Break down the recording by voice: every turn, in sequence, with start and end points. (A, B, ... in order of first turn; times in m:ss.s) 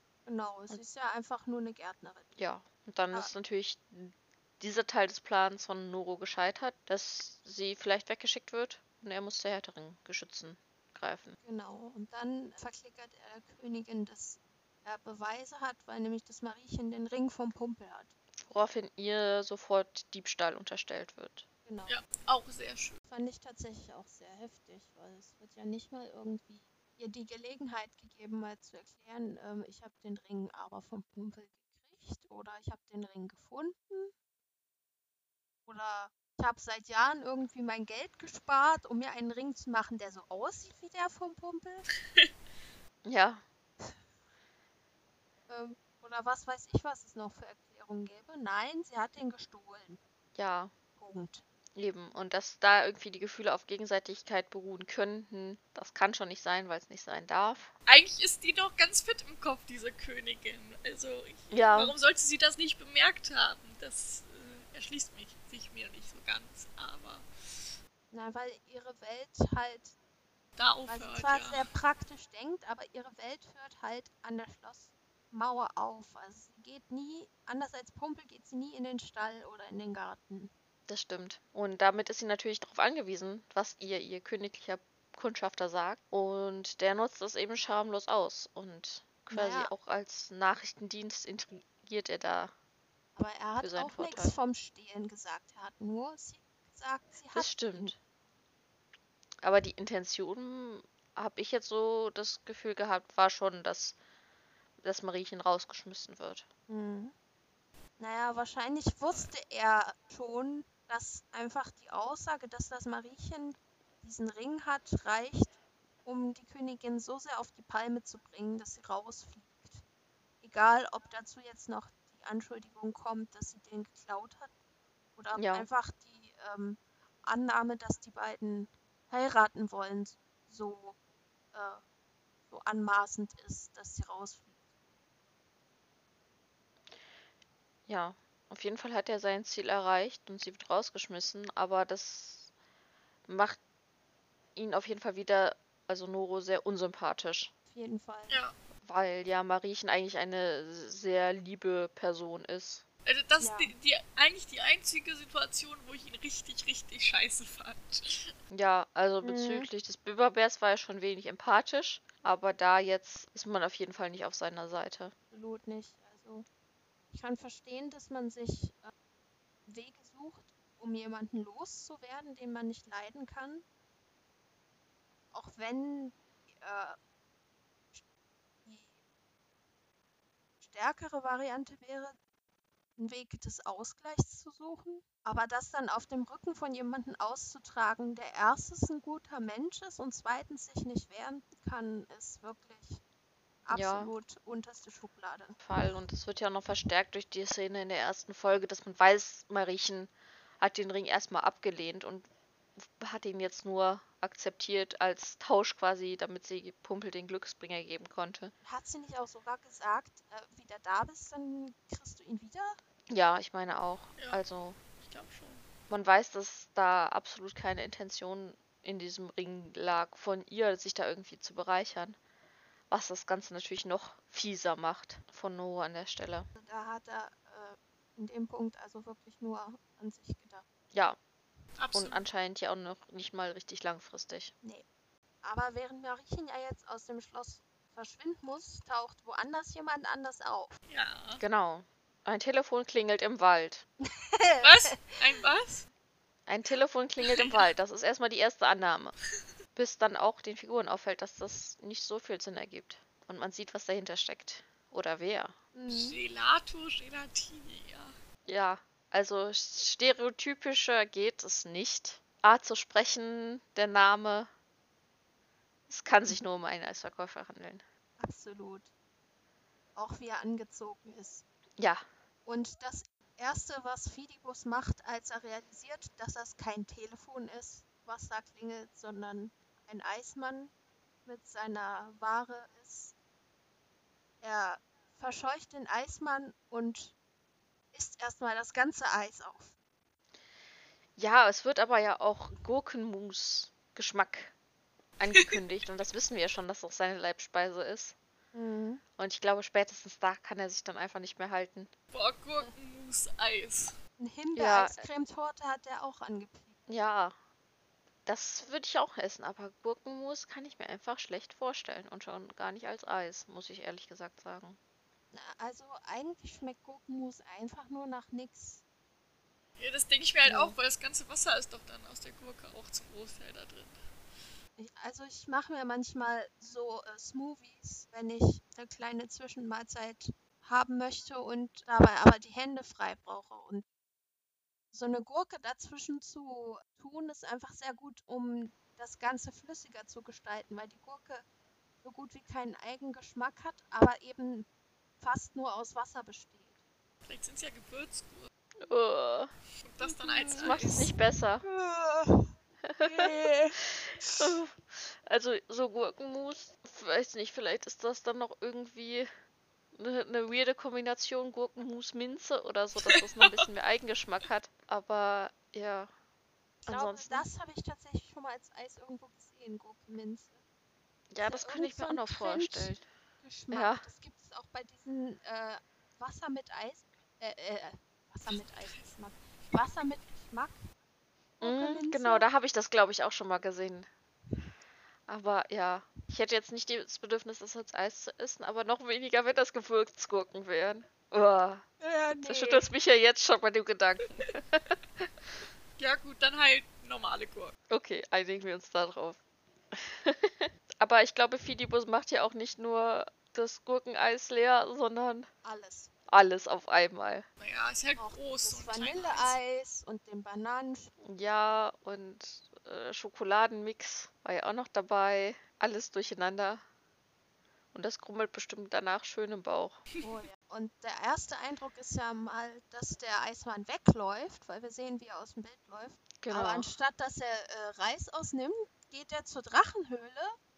0:00.3-0:02.3 A
0:02.4-0:11.4 B
0:11.4-0:18.1 A
0:18.4-0:21.5 B
0:21.7-0:22.0 A
0:21.9-0:23.0 C
0:23.1-0:34.1 A
0:35.7-0:41.9 A
0:43.0-0:43.4 B
0:45.5-0:50.0 A
0:50.4-0:50.7 B
0:51.0-0:51.4 A
0:51.8-0:57.7 B
0:57.9-1:07.2 C
1:01.5-1:02.0 B
1:08.1-1:10.0 A
1:10.6-1:11.7 C
1:10.9-1:20.5 A
1:20.9-1:32.5 B
1:29.3-1:29.7 A
1:33.2-1:38.0 A
1:33.6-1:34.4 B
1:37.3-1:38.0 B
1:39.4-1:44.0 B
1:44.8-1:46.5 B
1:46.7-1:47.1 A
1:48.0-1:59.8 A
2:00.4-2:04.5 A
2:05.2-2:11.0 A
2:05.3-2:05.7 B
2:11.5-2:11.8 A
2:12.5-2:14.6 A
2:17.9-2:22.5 B
2:23.3-2:23.6 B
2:24.6-2:27.5 B
2:27.7-2:28.4 A
2:28.3-2:28.5 C
2:28.8-2:32.8 B
2:33.1-2:38.3 C
2:33.4-2:33.7 A
2:38.5-2:45.1 B
2:39.2-2:39.7 A
2:45.3-2:46.5 A
2:47.1-2:48.9 A
2:49.7-2:53.6 A
2:55.3-2:57.0 A
2:58.6-2:59.0 A
3:00.6-3:02.2 A
3:03.0-3:13.0 A
3:13.7-3:15.6 A
3:13.7-3:14.1 B
3:15.6-3:28.5 B
3:28.6-3:32.8 A
3:33.1-3:34.8 B
3:34.2-3:34.4 C
3:35.0-3:35.7 C
3:35.9-3:42.2 B
3:42.9-3:46.5 B
3:46.6-3:50.6 A
3:50.9-3:51.2 B
3:51.8-3:52.2 C
3:51.9-3:54.5 B
3:55.4-4:00.8 A
4:00.9-4:01.4 C
4:01.4-4:03.8 B
4:04.1-4:05.1 A
4:04.6-4:05.9 C
4:06.5-4:09.1 B
4:09.8-4:15.6 B
4:15.7-4:16.2 A
4:15.9-4:18.2 C
4:18.5-4:24.5 B
4:25.9-4:27.8 B
4:28.2-4:28.9 A
4:30.0-4:31.4 A
4:31.8-4:32.1 B
4:32.5-4:40.7 A
4:41.3-4:43.2 A
4:44.4-4:47.2 A
4:47.9-4:49.7 A
4:51.2-4:54.5 B
4:55.2-4:58.2 B
4:58.5-4:59.0 A
4:59.2-5:01.9 B
5:02.1-5:04.0 C
5:04.2-5:06.8 A
5:04.6-5:05.0 B
5:06.9-5:07.4 B
5:08.3-5:14.8 B
5:15.3-5:18.8 A
5:19.8-5:24.0 C
5:20.5-5:20.7 B
5:24.8-5:33.8 A
5:34.9-5:41.4 A
5:42.0-5:44.7 A
5:45.2-5:46.8 A
5:47.2-5:48.5 C
5:48.8-5:49.5 B
5:49.8-5:51.1 C
5:50.0-5:50.9 A
5:50.6-5:51.6 B
5:51.6-5:52.5 A
5:52.9-5:59.3 B
5:53.0-5:54.6 A
5:59.9-6:06.1 B
6:06.9-6:07.5 B
6:06.9-6:10.6 A
6:11.3-6:13.0 B
6:11.4-6:20.9 A
6:13.7-6:14.1 B
6:18.5-6:19.2 C
6:21.6-6:22.5 A
6:21.6-6:24.1 B
6:25.3-6:31.8 B
6:32.0-6:32.9 A
6:32.4-6:35.3 B
6:36.0-6:37.7 C
6:37.9-6:39.4 B
6:39.9-6:45.5 B
6:45.6-6:46.1 A
6:46.3-6:47.4 B
6:47.6-6:49.6 C
6:48.2-6:51.1 A
6:51.2-6:56.8 B
6:57.9-7:00.0 B
7:00.2-7:10.6 A
7:06.4-7:06.9 B